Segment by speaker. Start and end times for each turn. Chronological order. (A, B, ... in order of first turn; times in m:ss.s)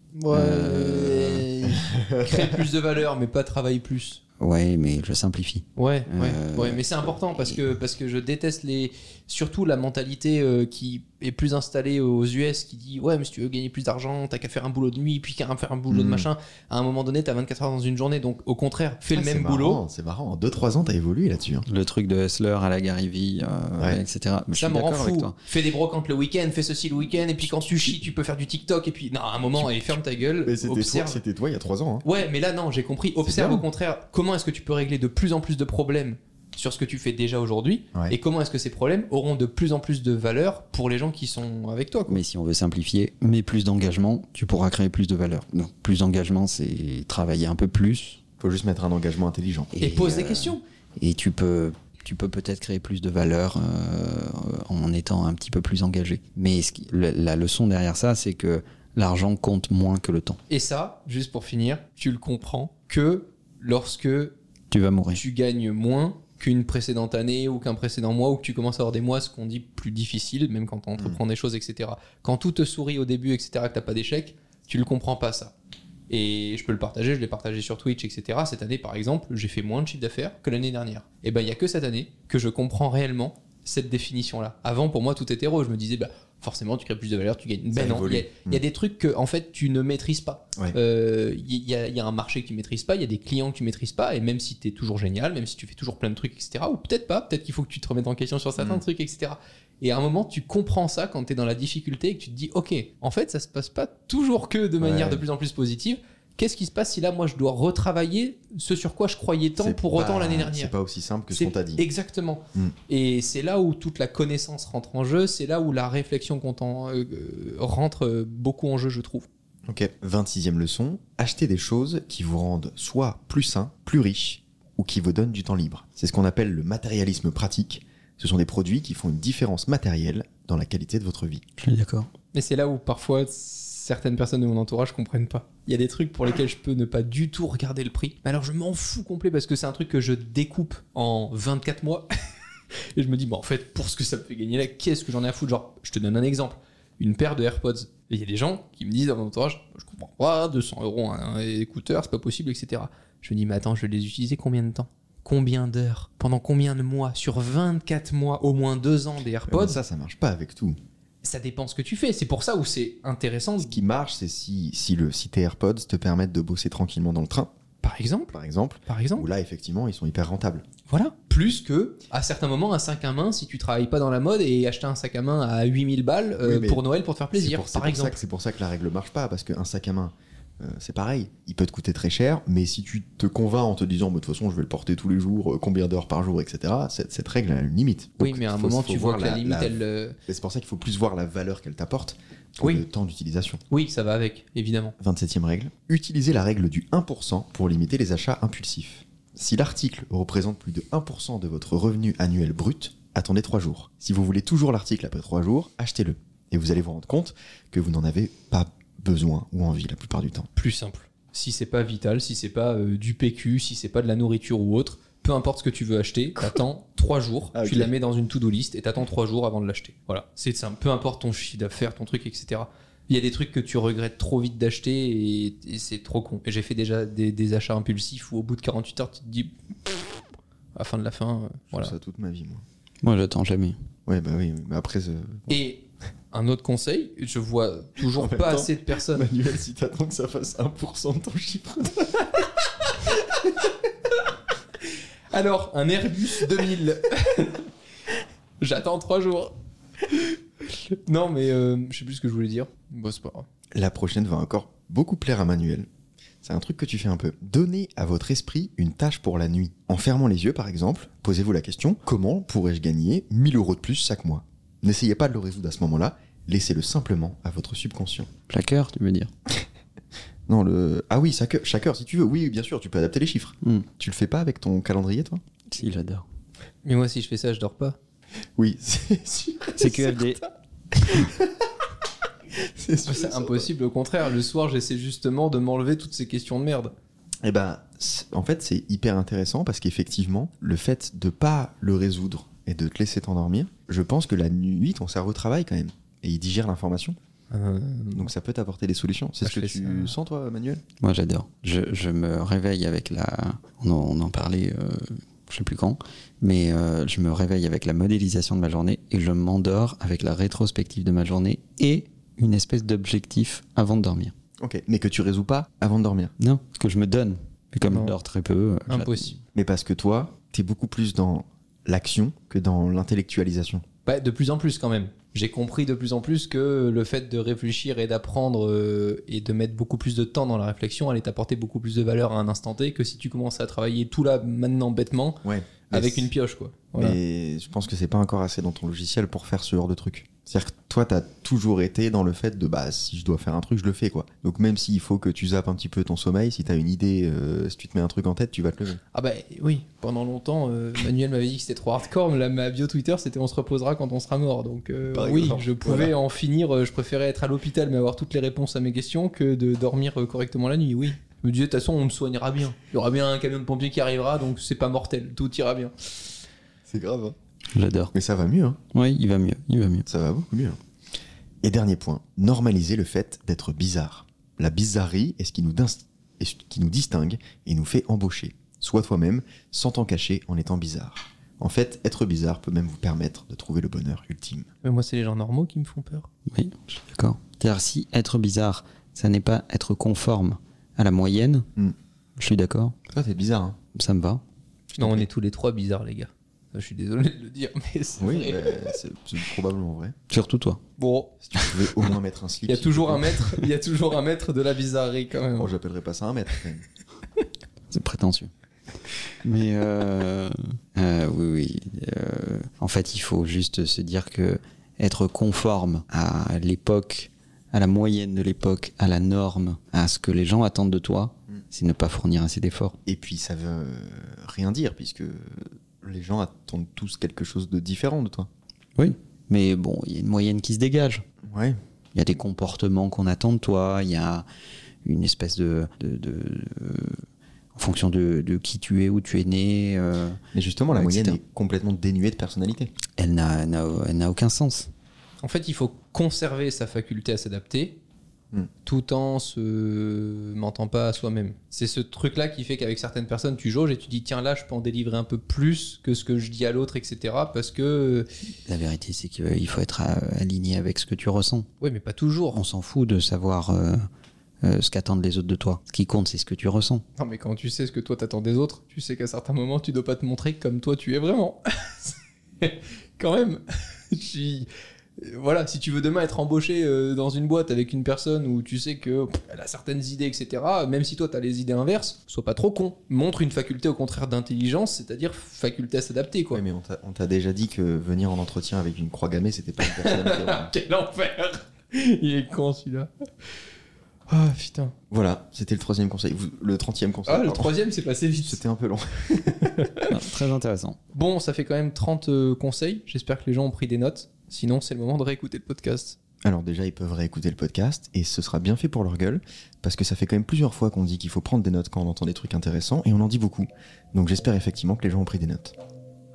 0:00.1-0:04.2 A
0:00.3-0:01.5 B
0:01.9-0:02.6 C
0:04.4-0:07.6 B
0:05.8-0:19.8 A
0:15.9-0:16.3 C
0:19.1-0:21.6 C
0:21.7-0:25.4 B
0:24.5-0:31.2 A
0:27.6-0:28.0 C
0:29.5-0:32.0 C
0:32.0-0:42.2 A
0:33.2-0:33.6 C
0:42.1-0:48.2 B
0:48.4-0:49.9 C
0:49.7-1:00.4 B
0:49.8-0:50.6 A
1:00.5-1:04.3 A
1:04.7-1:05.2 B
1:05.1-1:15.5 A
1:16.1-1:50.7 A
1:27.7-1:28.6 C
1:38.6-1:38.8 C
1:44.8-1:45.2 C
1:49.6-1:51.8 C
1:51.3-1:59.2 A
1:59.6-2:11.4 C
2:11.6-2:12.1 B
2:12.3-2:22.1 A
2:22.9-2:39.8 A
2:39.5-2:40.8 C
2:41.2-2:43.8 A
2:43.6-2:47.5 C
2:47.8-2:48.3 A
2:48.3-2:50.6 C
2:48.9-2:49.3 A
2:50.9-2:58.2 A
2:56.4-3:13.6 C
3:08.2-3:10.2 A
3:13.7-3:15.0 A
3:15.0-3:30.5 C
3:30.6-3:50.1 A
3:37.5-3:37.9 C
3:50.7-3:51.9 A
3:51.7-3:52.6 C
3:53.0-3:53.8 B
3:54.0-3:55.6 C
3:55.5-3:59.3 A
3:58.1-4:02.4 C
4:05.3-4:07.7 A
4:08.6-4:09.5 A
4:10.7-4:13.4 A
4:13.7-4:15.9 C
4:16.4-4:28.3 C
4:28.5-4:29.3 B
4:30.5-4:35.4 C
4:35.7-4:36.2 B
4:36.8-4:38.0 A
4:38.6-4:40.0 C
4:39.8-4:40.4 B
4:39.8-4:40.2 A
4:41.1-4:41.7 C
4:42.5-4:43.7 C
4:43.1-4:46.9 A
4:47.4-4:57.2 C
4:57.5-4:58.3 A
4:58.1-5:00.8 C
4:59.4-5:00.1 A
5:01.0-5:14.3 B
5:14.6-5:16.3 C
5:16.4-5:19.3 B
5:17.9-5:18.1 A
5:18.9-5:19.4 A
5:19.5-5:23.8 C
5:24.0-5:37.2 A
5:35.4-5:36.3 C
5:37.0-5:49.0 C
5:49.1-6:06.2 A
5:55.1-5:56.1 C
6:06.9-6:07.4 C
6:07.7-6:08.1 B
6:08.1-6:08.8 C
6:08.9-6:10.0 B
6:10.0-6:10.8 C
6:11.6-6:24.7 C
6:24.8-6:26.3 A
6:26.5-6:31.7 B
6:32.4-6:33.0 B
6:33.1-6:33.8 C
6:33.9-6:34.4 B
6:35.0-6:35.2 C
6:35.0-6:38.9 A
6:38.2-6:40.2 C
6:40.3-6:40.8 B
6:41.0-6:41.4 A
6:41.4-6:43.4 C
6:42.7-6:45.7 A
6:45.6-6:46.8 C
6:47.9-6:48.5 B
6:49.4-7:03.0 B
7:03.0-7:08.5 C
7:09.0-7:11.2 B
7:11.4-7:11.8 C
7:12.1-7:14.4 B
7:15.0-7:17.2 B
7:17.7-7:20.4 B
7:20.5-7:22.9 C
7:20.9-7:21.4 B
7:23.2-7:24.9 B
7:25.4-7:28.0 A
7:28.8-7:38.3 A
7:38.7-7:41.7 B
7:41.8-7:42.6 A
7:42.5-7:44.0 B
7:44.6-7:47.0 B
7:47.2-8:06.6 A
8:06.5-8:10.7 C
8:09.9-8:13.1 A
8:14.3-8:14.9 A
8:15.1-8:17.7 C
8:17.2-8:18.6 A
8:18.4-8:19.8 C
8:19.6-8:20.1 A
8:20.1-8:21.0 B
8:21.1-8:26.2 A
8:26.4-8:35.8 C